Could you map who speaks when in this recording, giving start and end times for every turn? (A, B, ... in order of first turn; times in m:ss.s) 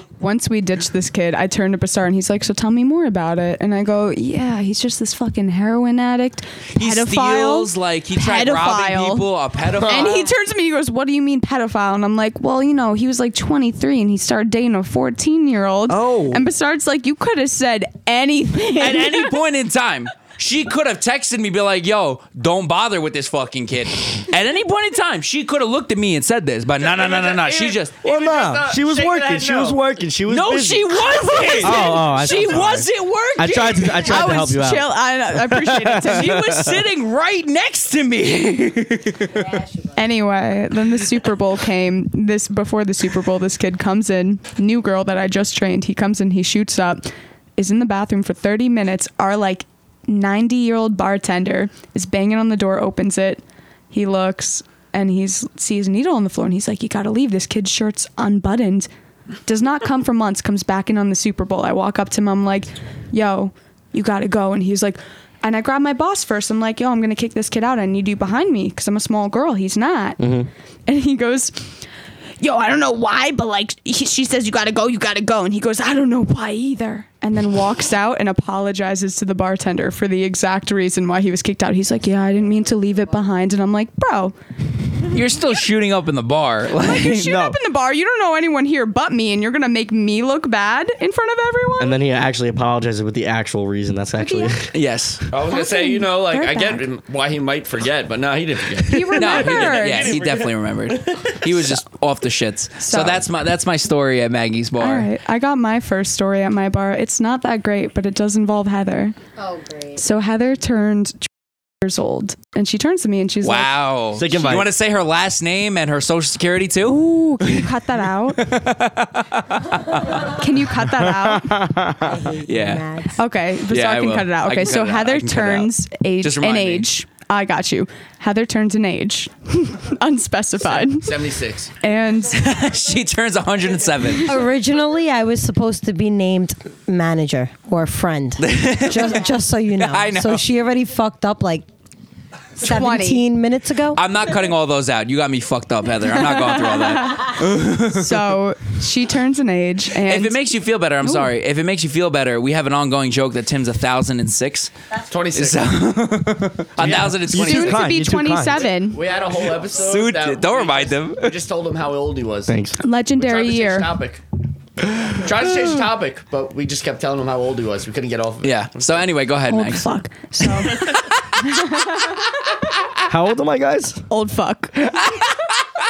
0:00.2-0:09.3 A
0:06.7-0:10.3 B
0:09.8-0:19.4 A
0:15.9-0:16.4 B
0:18.8-0:28.0 B
0:26.8-0:29.8 C
0:28.0-0:36.8 D
0:30.3-0:34.3 B
0:31.3-0:32.2 A
0:34.0-0:36.5 A
0:36.0-0:39.5 B
0:39.3-0:39.9 E
0:40.0-0:58.9 A
0:59.5-1:10.2 A
1:10.2-1:10.5 D
1:10.9-1:11.7 A
1:12.4-1:24.4 A
1:25.1-1:27.4 B
1:26.8-1:32.0 A
1:27.2-1:27.6 D
1:31.8-1:34.7 D
1:34.2-1:34.5 A
1:34.7-1:35.2 B
1:35.3-1:41.4 C
1:35.5-1:36.9 A
1:38.9-1:40.2 A
1:39.2-1:45.1 B
1:42.8-1:43.2 A
1:44.8-1:49.2 A
1:49.4-1:50.0 E
1:50.0-1:51.3 A
1:51.8-1:53.7 A
1:53.4-1:57.7 B
1:54.2-1:54.7 D
1:56.9-1:58.5 A
1:58.4-2:00.3 B
2:00.3-2:01.5 A
2:01.0-2:02.2 D
2:02.0-2:03.2 E
2:02.5-2:02.8 B
2:03.2-2:11.1 A
2:03.7-2:05.7 B
2:06.2-2:06.9 B
2:10.7-2:11.7 C
2:11.8-2:12.5 A
2:12.3-2:14.4 B
2:14.2-2:21.7 E
2:18.4-2:20.4 B
2:22.6-2:24.0 E
2:22.6-2:23.2 A
2:24.0-2:28.3 B
2:26.1-2:30.4 A
2:30.1-2:34.7 B
2:31.0-2:31.3 A
2:35.1-2:35.7 C
2:35.3-2:37.9 B
2:36.8-2:38.7 D
2:37.3-2:39.0 A
2:38.8-2:42.6 C
2:39.8-2:41.4 B
2:42.5-2:42.8 D
2:42.8-2:44.0 A
2:43.2-2:44.2 C
2:45.1-2:49.0 C
2:48.4-2:49.9 B
2:49.5-2:52.3 A
2:50.6-2:51.2 B
2:53.1-2:54.0 D
2:54.1-2:55.0 A